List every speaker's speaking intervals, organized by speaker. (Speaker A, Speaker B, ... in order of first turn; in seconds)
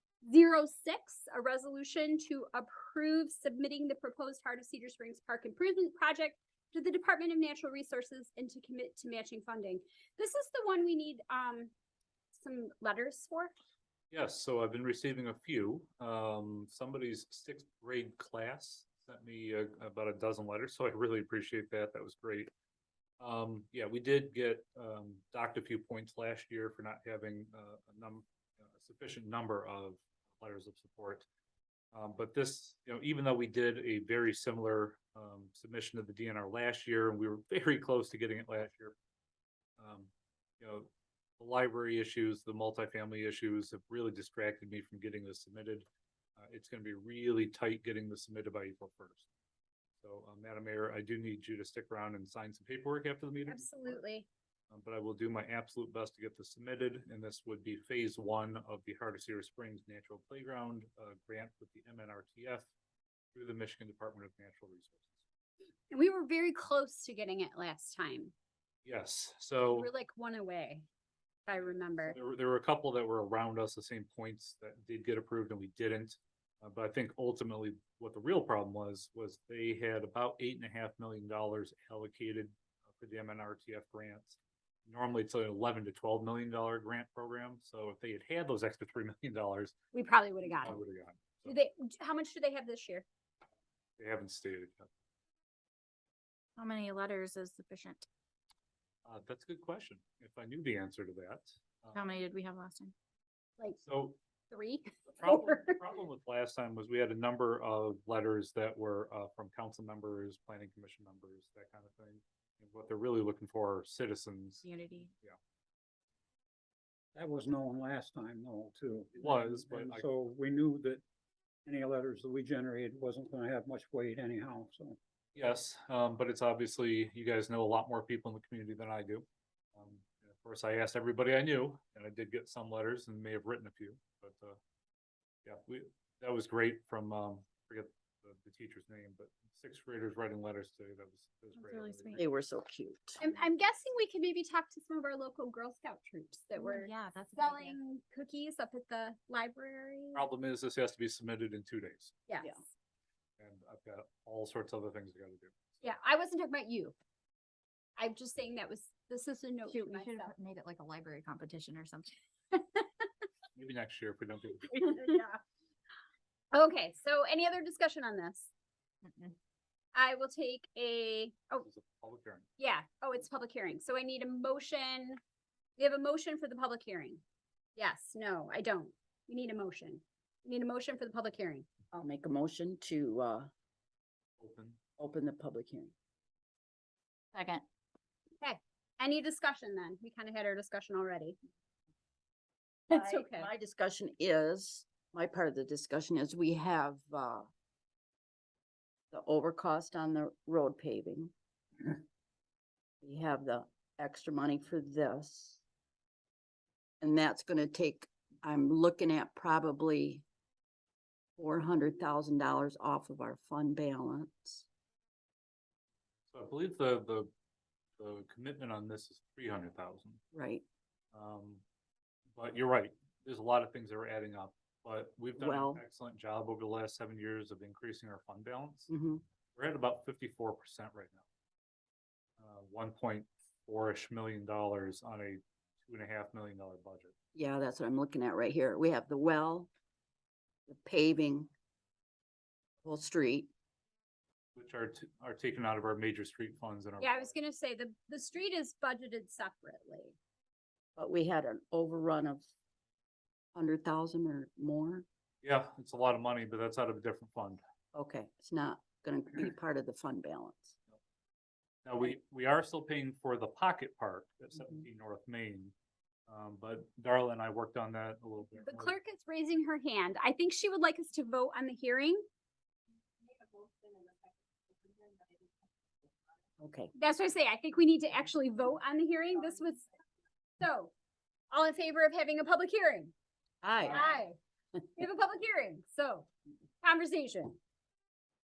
Speaker A: 0.2-11.7, 12.3-13.5, 53.5-54.3, 65.9-68.3, 69.7-70.9, 71.5-72.2, 89.9-90.8, 91.5-93.1, 104.5-105.8, 143.2-150.2, 152.3-152.6, 155.8-156.9, 158.0-160.3, 164.9-165.3, 166.5-168.5, 169.9-171.7, 172.6-175.2, 175.8-177.2, 177.8-181.7, 188.4-191.4, 192.9-193.5, 247.0-250.2, 268.6-272.2, 276.9-279.9, 280.6-280.9, 281.5-283.1, 283.8-284.4, 285.0-286.3, 286.8-287.6
Speaker B: 14.1-22.5, 23.2-31.3, 31.9-39.0, 39.8-45.9, 46.4-49.3, 50.0-54.0, 54.7-62.7, 63.3-65.1, 68.8-69.9, 72.0-89.7, 90.6-91.5, 94.0-94.9, 99.0-102.0, 103.8-104.2, 105.2-114.7, 119.2-120.1, 125.3-134.6, 135.4-142.2, 150.1-152.2, 153.4-155.5, 163.6-164.8, 171.6-172.5, 184.4-184.8, 216.3-217.3, 218.0-220.2, 221.1-221.6, 222.3-228.9, 229.6-231.2, 232.4-237.1, 244.6-247.3, 255.4-257.6, 261.9-265.7, 266.3-269.0
Speaker C: 96.6-98.1, 101.9-102.9, 114.6-115.1, 141.6-142.2, 146.6-147.8, 159.7-162.1, 169.1-169.3, 187.3-187.6
Speaker D: 117.2-121.0, 121.7-125.0
Speaker E: 142.2-143.2, 181.9-183.5, 185.0-185.9, 192.9-197.5, 199.1-202.0, 203.0-205.6, 207.0-210.2, 211.4-214.7, 220.3-220.6, 225.4-225.8, 228.9-229.2, 237.3-239.7, 240.7-241.5, 242.8-243.5, 251.0-252.5, 253.6-255.1, 257.9-260.8, 276.6-276.9, 283.6-284.1